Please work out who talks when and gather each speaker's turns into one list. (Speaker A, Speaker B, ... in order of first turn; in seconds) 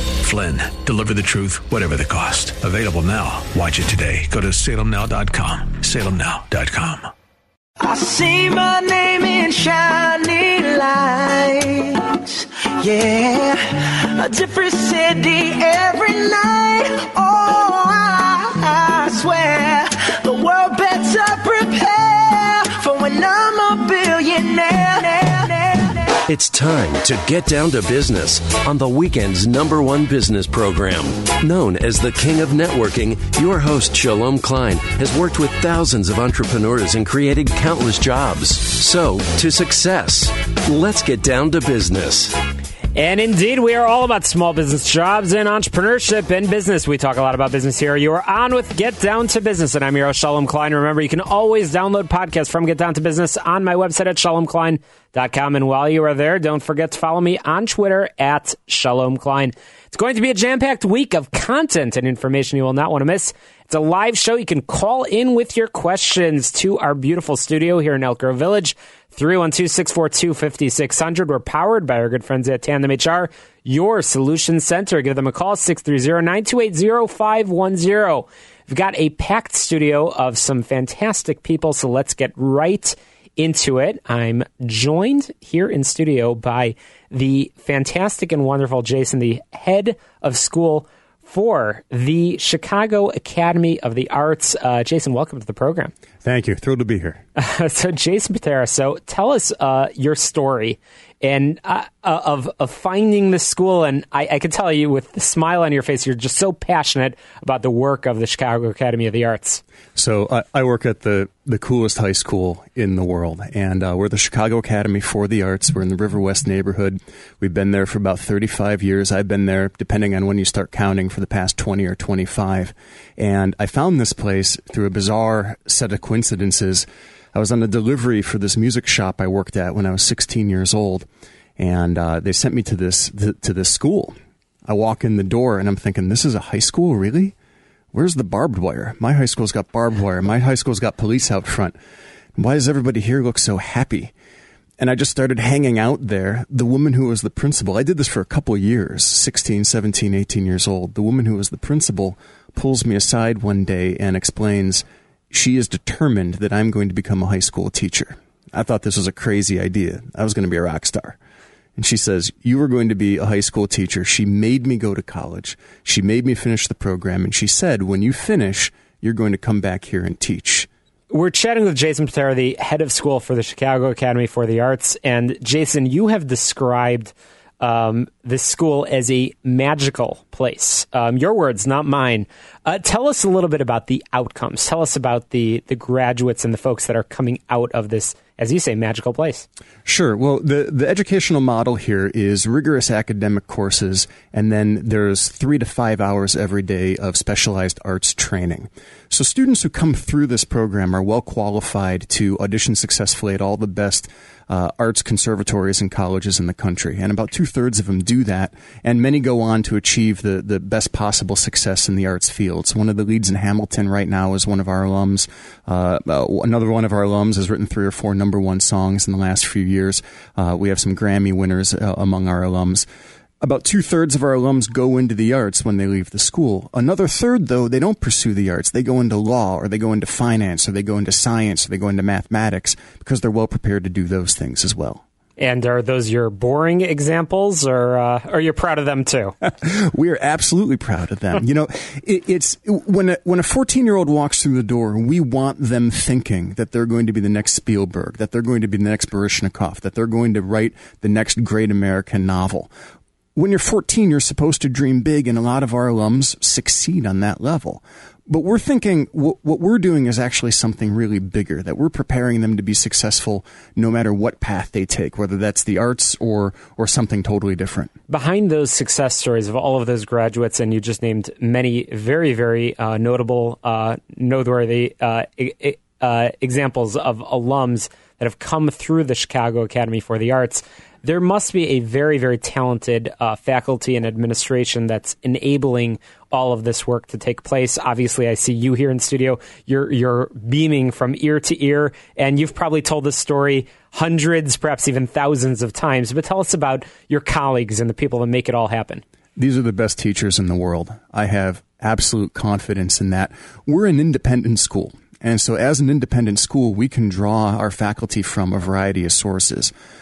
Speaker A: 0.2-7.1
Speaker B: 7.8-26.1
Speaker C: 26.3-42.4
Speaker D: 42.9-95.9, 97.3-109.6, 171.1-189.4, 235.4-239.3, 268.1-299.0
Speaker E: 96.2-97.2, 110.0-134.1, 134.7-137.3, 137.9-141.8, 142.3-144.1, 144.8-161.2, 161.8-170.7, 189.8-222.8, 223.4-235.0, 239.5-252.7, 253.3-267.9, 299.4-309.7